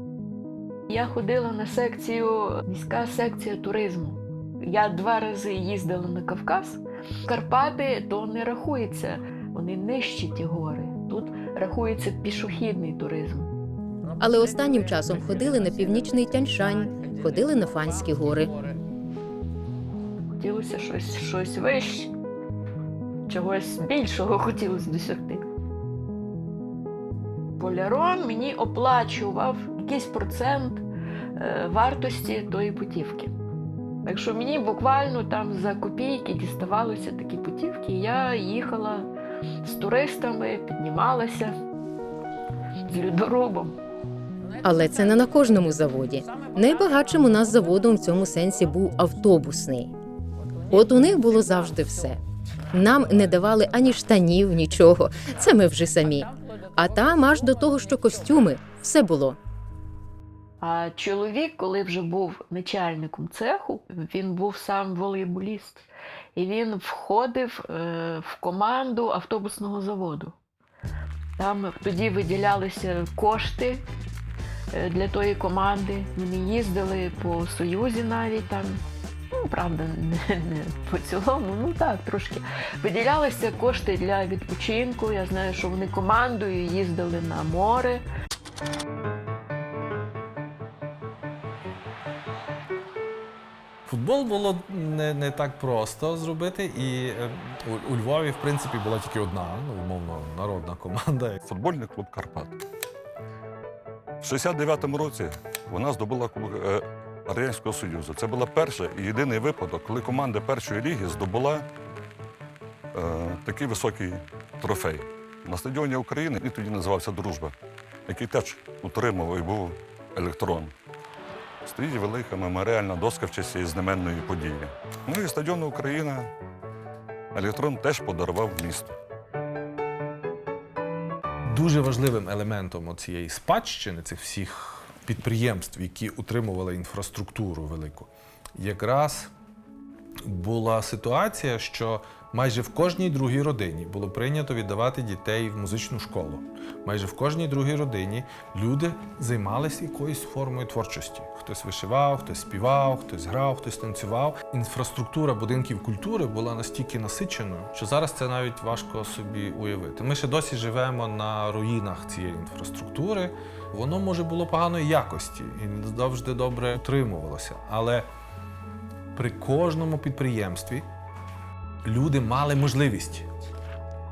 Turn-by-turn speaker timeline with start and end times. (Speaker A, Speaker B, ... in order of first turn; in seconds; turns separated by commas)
Speaker A: 0.9-13.5, Speaker B: 14.2-18.5, Speaker A: 20.4-22.1, Speaker A: 23.3-25.4, Speaker A: 27.6-30.9, Speaker A: 31.4-33.3, Speaker A: 34.0-39.1, Speaker A: 39.6-41.5, Speaker A: 42.9-43.7, Speaker B: 44.6-49.9, Speaker B: 50.7-52.2, Speaker B: 52.7-59.4, Speaker A: 60.6-70.3, Speaker A: 71.4-73.8, Speaker A: 74.7-78.8, Speaker A: 79.3-88.0, Speaker C: 93.8-101.4, Speaker D: 101.5-102.6, Speaker D: 104.2-111.7, Speaker D: 112.9-117.5, Speaker D: 118.1-120.7, Speaker D: 121.7-126.3, Speaker D: 127.3-128.9, Speaker C: 131.5-139.3, Speaker C: 140.2-168.1, Speaker C: 169.1-170.9, Speaker C: 171.8-173.3